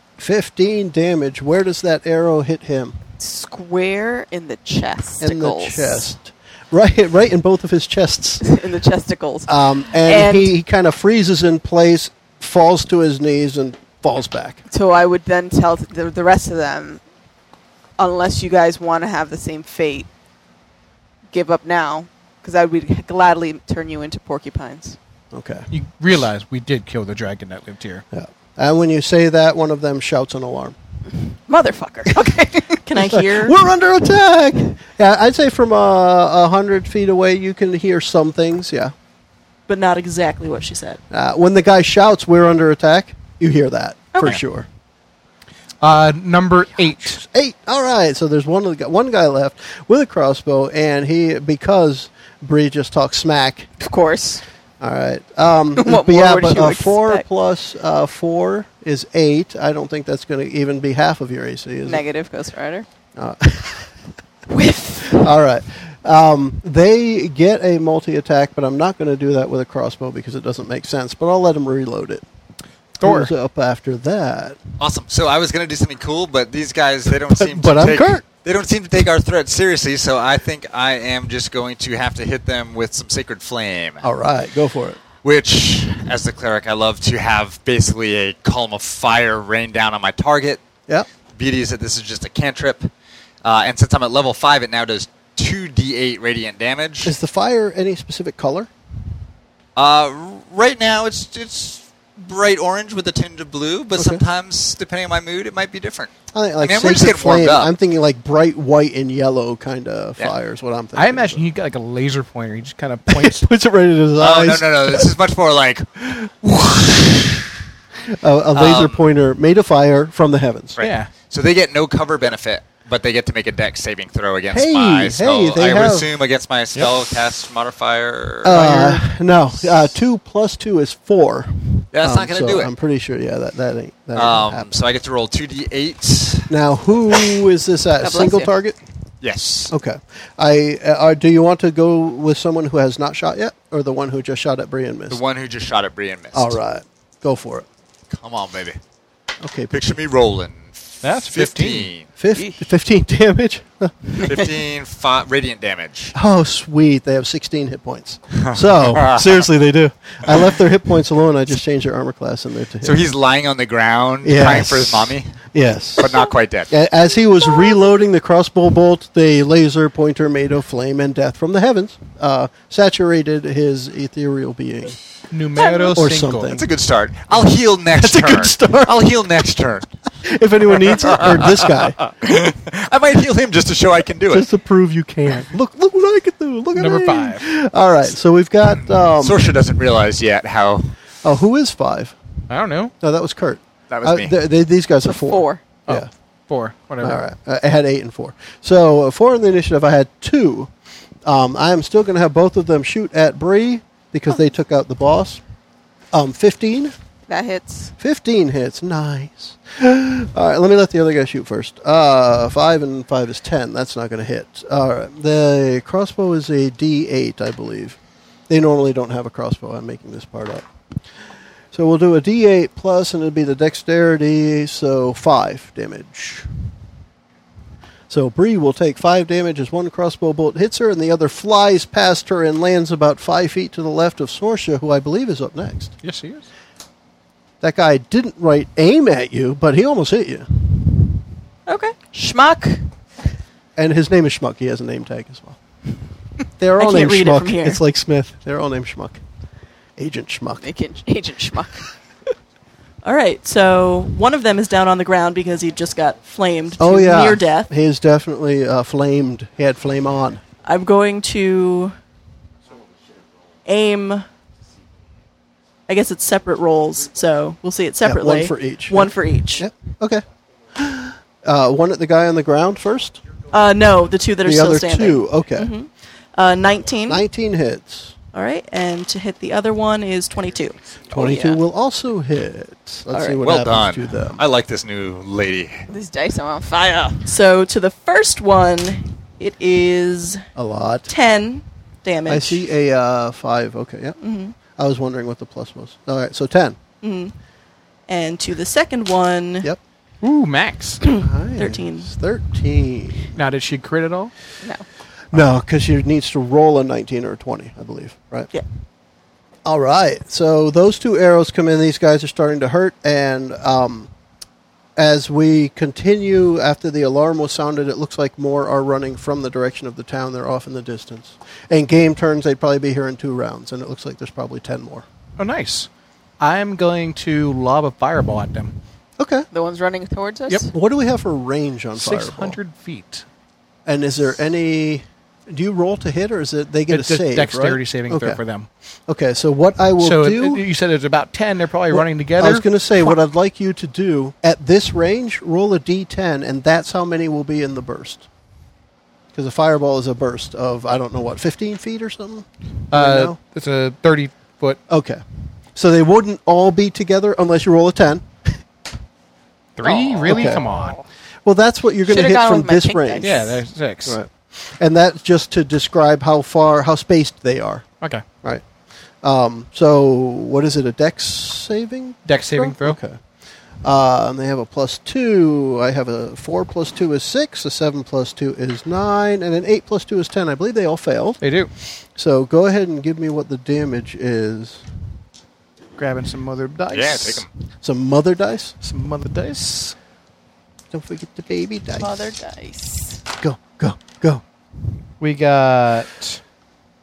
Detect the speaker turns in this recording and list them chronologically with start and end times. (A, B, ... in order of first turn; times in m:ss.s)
0:00.2-0:03.0 A
0:03.2-0:06.1 B
0:05.2-0:08.5 A
0:08.4-0:10.5 B
0:09.5-0:14.6 A
0:14.7-0:17.0 B
0:18.0-0:20.1 B
0:21.3-0:25.0 B
0:25.3-0:25.7 A
0:25.7-0:28.0 C
0:28.1-0:30.7 A
0:31.2-0:32.8 B
0:32.8-0:33.5 D
0:32.9-0:38.9 A
0:39.7-0:41.0 D
0:41.1-0:44.7 A
0:45.8-0:47.2 C
0:47.0-0:53.7 A
0:53.8-0:54.4 B
0:54.8-1:02.0 A
0:55.8-0:57.2 B
1:01.8-1:02.8 B
1:03.2-1:03.9 A
1:04.5-1:05.2 B
1:05.0-1:12.2 A
1:13.0-1:13.3 C
1:13.0-1:14.6 A
1:14.8-1:24.0 E
1:17.3-1:18.2 A
1:24.0-1:25.0 A
1:25.2-1:30.6 E
1:31.4-1:32.9 E
1:33.4-1:37.1 E
1:37.0-1:38.7 A
1:39.8-1:47.7 E
1:44.0-1:44.2 A
1:46.3-1:51.4 A
1:51.0-1:53.4 C
1:53.1-1:55.1 A
1:54.2-1:56.3 E
1:56.4-1:57.4 A
1:58.0-2:00.8 A
1:58.5-1:59.0 E
2:00.8-2:08.9 E
2:00.8-2:01.1 C
2:04.5-2:06.1 A
2:06.7-2:07.1 C
2:08.4-2:14.7 A
2:08.5-2:09.0 C
2:11.9-2:12.7 E
2:14.1-2:16.5 E
2:16.5-2:18.8 A
2:18.0-2:18.5 B
2:19.2-2:19.7 E
2:19.7-2:25.2 A
2:25.1-2:26.6 E
2:26.3-2:27.6 A
2:28.1-2:28.8 E
2:29.4-2:29.9 A
2:29.7-2:32.0 E
2:31.0-2:31.9 C
2:32.2-2:34.3 A
2:34.2-2:36.1 E
2:36.1-2:43.0 A
2:38.4-2:39.4 E
2:42.8-2:45.3 E
2:44.2-2:46.1 A
2:46.0-2:46.7 E
2:46.7-2:55.0 A
2:55.3-2:56.6 C
2:55.9-2:56.6 A
2:56.5-2:59.9 E
2:57.9-2:59.1 A
3:00.2-3:02.0 A
3:00.7-3:04.5 E
3:04.3-3:09.5 A
3:06.7-3:07.4 C
3:09.1-3:10.9 E
3:11.2-3:12.2 A
3:12.5-3:12.9 C
3:13.0-3:16.1 A
3:13.9-3:14.3 E
3:15.0-3:15.6 B
3:15.9-3:17.2 C
3:17.0-3:20.7 A
3:21.2-3:25.4 A
3:26.1-3:26.9 A
3:27.3-3:27.9 B
3:28.0-3:38.0 A
3:38.5-3:40.6 A
3:41.7-3:46.5 A
3:48.1-3:55.9 A
3:56.0-3:56.5 C
3:57.6-4:01.1 A
4:01.7-4:01.9 D
4:02.0-4:02.8 B
4:03.8-4:05.6 A
4:06.6-4:09.2 A
4:06.8-4:07.8 D
4:10.0-4:10.7 A
4:10.6-4:11.9 B
4:13.0-4:17.7 D
4:16.8-4:20.4 A
4:20.6-4:21.9 D
4:23.6-4:24.2 D
4:25.9-4:29.7 D
4:28.0-4:33.2 A
4:33.5-4:37.2 D
4:34.4-4:35.7 A
4:37.1-4:38.1 A
4:38.3-4:40.8 D
4:41.1-4:44.4 A
4:41.1-4:41.6 B
4:43.1-4:43.4 D
4:43.4-4:45.8 E
4:45.9-4:47.2 B
4:47.2-4:50.4 D
4:50.5-4:51.1 A
4:51.1-4:52.6 D
4:52.3-4:54.2 A
4:54.2-4:54.6 D
4:54.8-4:56.8 A
4:57.0-4:57.3 D
4:58.1-4:59.7 D
5:00.2-5:01.0 C
5:01.0-5:02.1 D
5:01.2-5:03.3 A
5:03.3-5:04.3 C
5:05.3-5:08.5 A
5:09.6-5:14.1 A
5:15.0-5:25.0 A
5:25.4-5:25.9 C
5:26.4-5:28.8 C
5:29.2-5:29.5 A
5:29.5-5:30.7 B
5:30.5-5:32.6 A
5:32.0-5:33.2 C
5:33.8-5:38.4 A
5:36.9-5:38.7 C
5:39.1-5:40.6 A
5:40.0-5:42.6 C
5:41.9-5:48.2 A
5:49.3-5:53.4 A
5:52.9-5:54.8 C
5:54.9-5:55.2 A
5:55.7-5:58.6 A
5:59.8-6:01.0 C
5:59.8-6:00.9 B
6:00.2-6:00.6 A
6:01.4-6:03.4 A
6:02.1-6:03.6 B
6:03.2-6:04.2 C
6:04.0-6:07.8 A
6:09.2-6:13.2 A
6:12.2-6:13.0 C
6:13.8-6:21.4 A
6:21.4-6:21.7 C
6:22.1-6:24.8 A
6:26.0-6:27.4 C
6:26.9-6:27.5 E
6:27.8-6:28.7 A
6:28.8-6:29.9 C
6:30.9-6:32.3 A
6:32.0-6:33.2 B
6:33.4-6:34.4 A
6:35.2-6:36.4 C